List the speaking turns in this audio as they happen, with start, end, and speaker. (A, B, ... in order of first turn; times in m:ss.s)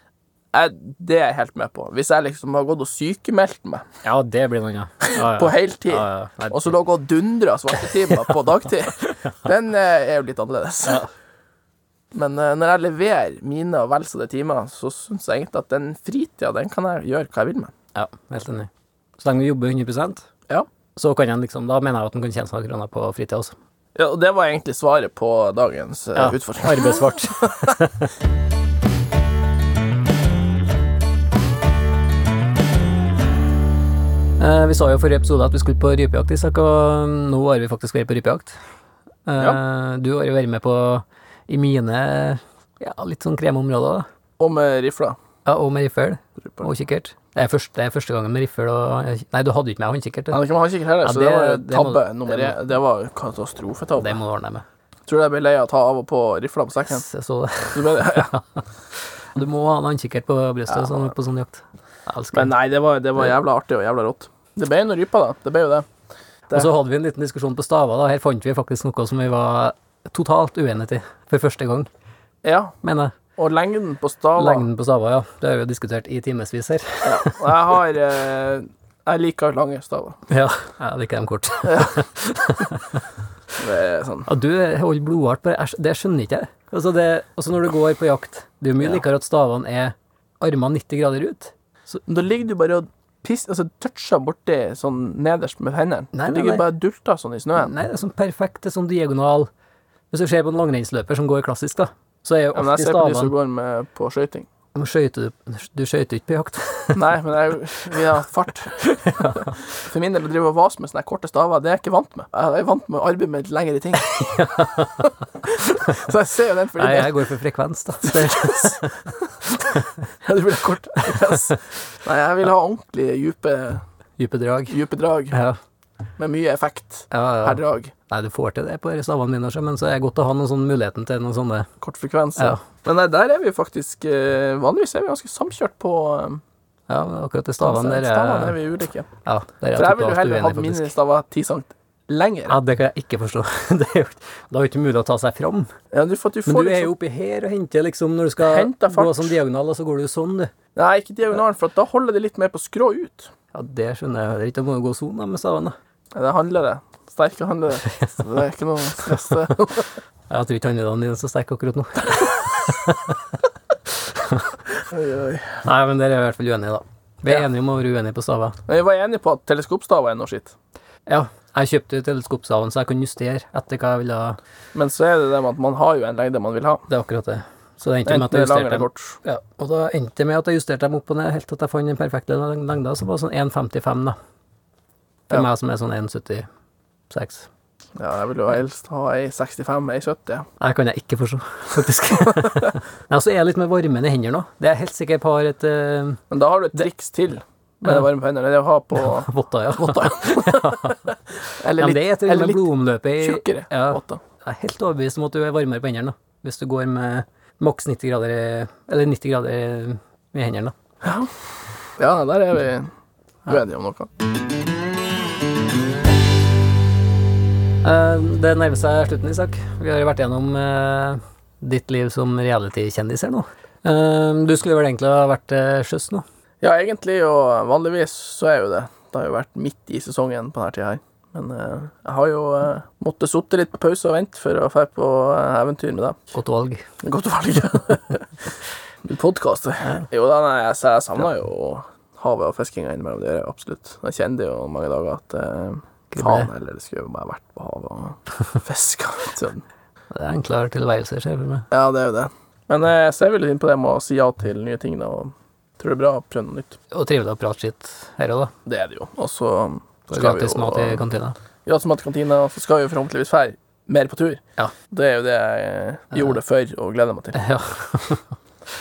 0:00.5-0:03.8 A
0:04.0-0:06.8 B
0:05.1-0:11.0 A
0:12.1-0:17.7 A
0:17.9-0:20.3 B
0:21.0-0:23.5 B
0:24.0-0:27.7 A
0:26.2-0:28.1 B
0:34.4-0:38.6 B
0:39.2-0:44.0 B
0:44.4-0:45.2 A
0:45.4-0:50.4 B
0:46.4-0:46.7 A
0:50.3-0:54.2 A
0:51.0-0:52.6 B
0:54.0-0:54.6 B
0:55.1-0:57.0 A
0:56.9-0:58.4 B
0:57.6-0:58.3 A
0:59.3-1:02.5 B
1:00.7-1:01.1 A
1:02.3-1:05.9 A
1:06.5-1:11.9 B
1:12.4-1:12.8 A
1:12.8-1:13.2 B
1:13.4-1:14.7 A
1:14.4-1:17.5 B
1:17.0-1:20.2 A
1:20.3-1:23.0 B
1:21.6-1:21.9 A
1:23.6-1:24.3 A
1:24.2-1:32.0 B
1:32.0-1:37.7 A
1:36.1-1:36.7 B
1:37.6-1:39.5 B
1:40.1-1:43.3 B
1:42.5-1:44.5 A
1:44.7-1:47.0 B
1:46.9-1:54.2 A
1:48.8-1:49.5 B
1:54.0-1:55.1 B
1:55.4-1:57.3 A
1:56.8-1:59.1 B
1:58.0-1:58.8 A
2:00.2-2:03.8 A
2:04.2-2:04.8 B
2:04.7-2:05.3 A
2:05.3-2:05.6 B
2:06.2-2:07.9 A
2:07.1-2:11.7 B
2:11.8-2:16.4 A
2:16.9-2:18.6 B
2:17.6-2:19.1 A
2:19.2-2:20.9 B
2:19.7-2:22.6 A
2:22.5-2:25.7 B
2:25.9-2:26.9 A
2:26.4-2:30.5 B
2:28.4-2:29.4 A
2:30.8-2:33.3 A
2:33.5-2:35.8 B
2:36.1-2:39.9 A
2:40.3-2:43.2 B
2:44.0-2:44.6 B
2:44.9-2:45.6 A
2:45.6-2:48.6 B
2:48.7-2:50.5 A
2:51.1-2:54.4 B
2:54.7-2:56.8 A
2:56.9-3:04.2 B
2:58.0-2:59.2 A
3:05.3-3:06.5 B
3:07.1-3:07.5 B
3:08.0-3:10.5 A
3:10.6-3:16.2 B
3:16.3-3:24.2 A
3:19.0-3:21.0 B
3:21.7-3:30.7 B
3:31.0-3:31.3 A
3:32.0-3:32.9 A
3:33.4-3:34.1 A
3:37.8-3:46.2 B
3:46.6-3:56.3 A
3:56.3-3:56.8 B
3:57.0-3:58.3 A
3:59.0-4:09.6 A
4:06.1-4:06.5 B
4:10.1-4:11.7 B
4:11.7-4:16.8 A
4:16.9-4:18.5 B
4:18.6-4:21.0 A
4:20.1-4:21.3 B
4:21.6-4:27.4 A
4:27.3-4:28.3 B